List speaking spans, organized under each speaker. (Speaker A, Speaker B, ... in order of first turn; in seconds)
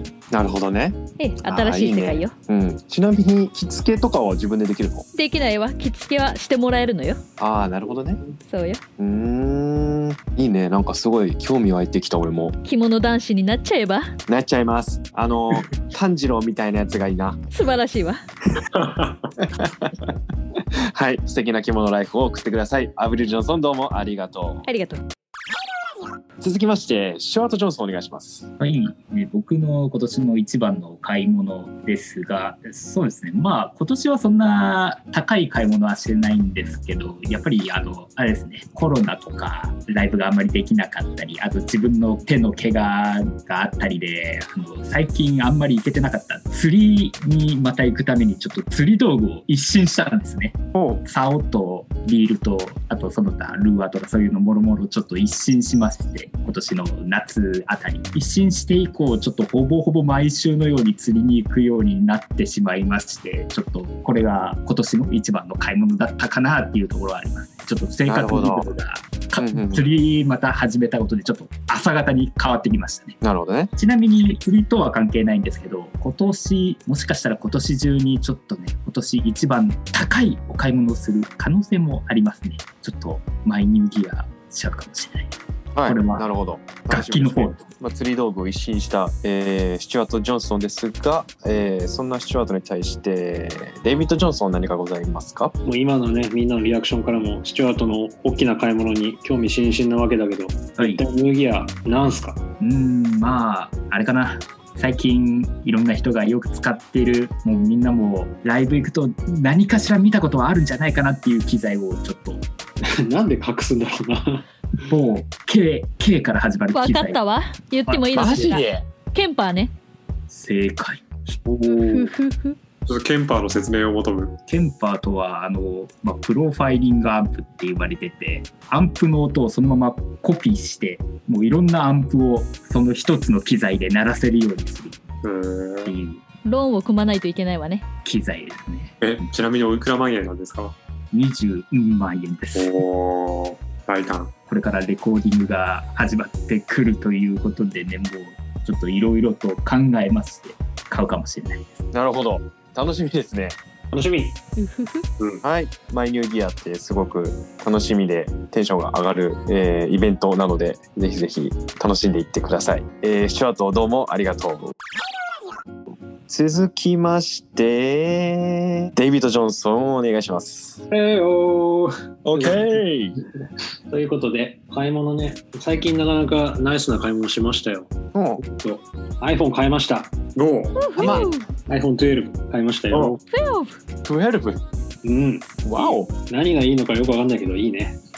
Speaker A: 0.3-5.1, 7.4-8.2, 9.0-12.6, 14.3-17.4, 19.4-20.1, 20.9-24.7, 26.4-28.5, 50.7-51.0, 68.1-68.7, 69.4-69.9, 73.2-73.7, 85.8-95.5, 118.1-118.8, 151.9-153.6, 155.4-164.7, 166.3-170.8, 172.2-173.2, 178.1-178.4, 181.0-181.3, 184.0-184.6, 185.6-186.1
Speaker B: 1.2-2.3, 5.2-7.2, 8.4-8.8, 12.6-14.1, 17.5-18.2, 24.7-25.0, 116.7-119.7, 121.6-122.6, 136.4-137.8, 154.6-155.0, 180.8-181.5, 183.3-183.8
Speaker C: 18.8-19.3, 122.9-124.3, 135.2-135.9, 139.0-140.8, 142.6-144.3, 180.4-180.9, 182.9-183.2
Speaker D: 28.6-73.2, 73.8-86.3, 86.9-87.7, 100.8-101.0, 102.6-112.5, 114.8-117.2, 117.9-118.6, 120.3-121.0, 124.5-135.0, 135.9-136.2, 138.0-139.2, 141.1-142.8, 144.5-151.8
Speaker E: 95.7-102.4, 112.8-114.5, 121.3-122.1, 153.9-154.4, 170.9-172.8, 173.9-180.2, 181.1-183.2, 185.1-185.6, 186.2-188.0